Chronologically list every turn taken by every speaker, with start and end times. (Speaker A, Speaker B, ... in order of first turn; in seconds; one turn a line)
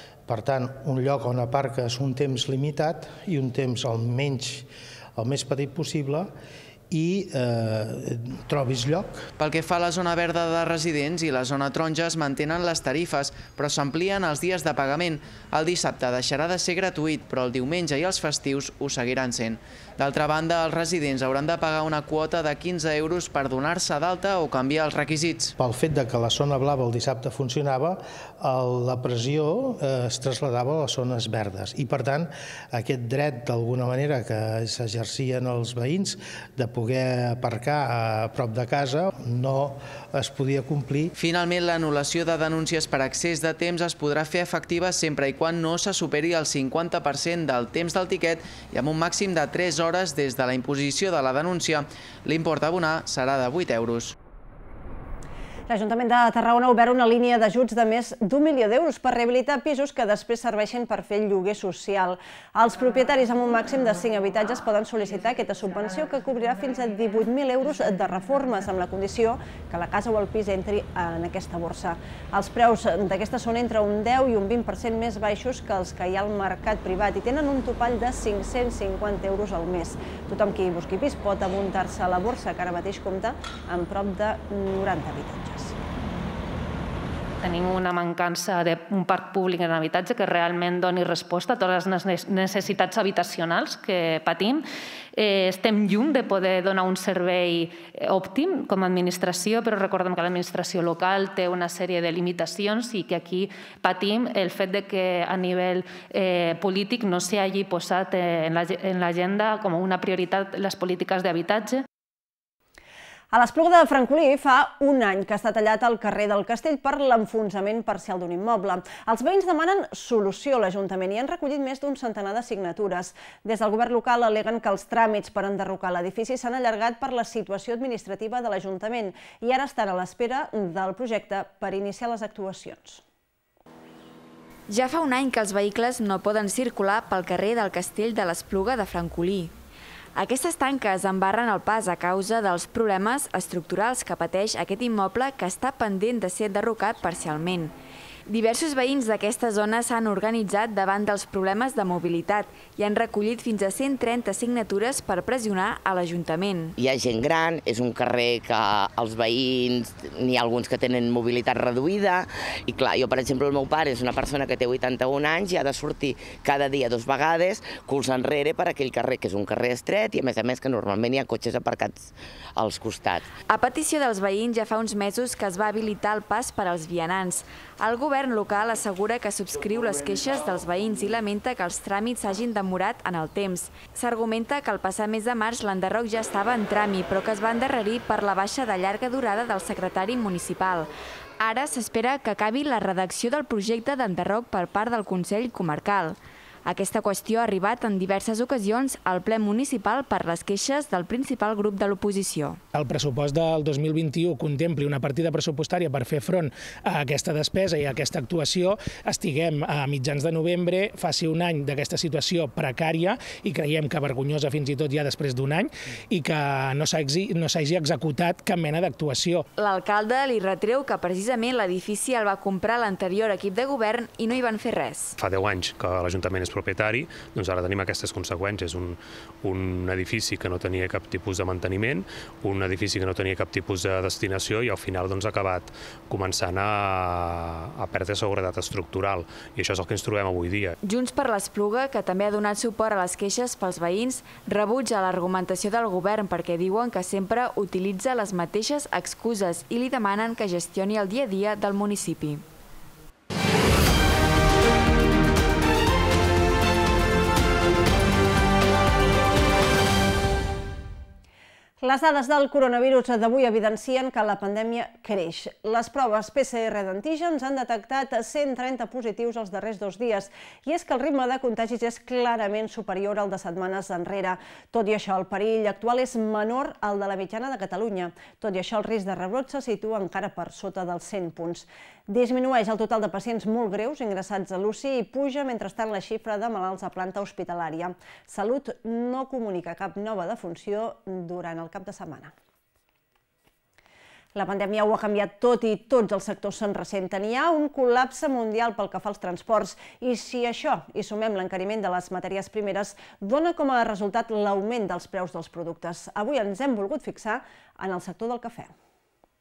Speaker A: 0.3-6.3
Speaker A: 6.9-9.2
Speaker B: 9.4-25.5
Speaker A: 25.6-41.1
Speaker B: 41.2-54.1
Speaker C: 55.7-85.8
Speaker D: 87.4-94.6
Speaker D: 95.2-111.8
Speaker C: 113.3-133.0
Speaker E: 134.7-139.5
Speaker E: 140.2-147.7
Speaker E: 148.3-156.7
Speaker F: 156.8-173.3
Speaker E: 173.5-190.9
Speaker E: 191.4-202.6
Speaker G: 202.7-219.4
Speaker E: 219.6-225.2
Speaker H: 225.2-240.7
Speaker E: 240.8-252.4
Speaker C: 261.8-292.3
Speaker C: 294.3-308.7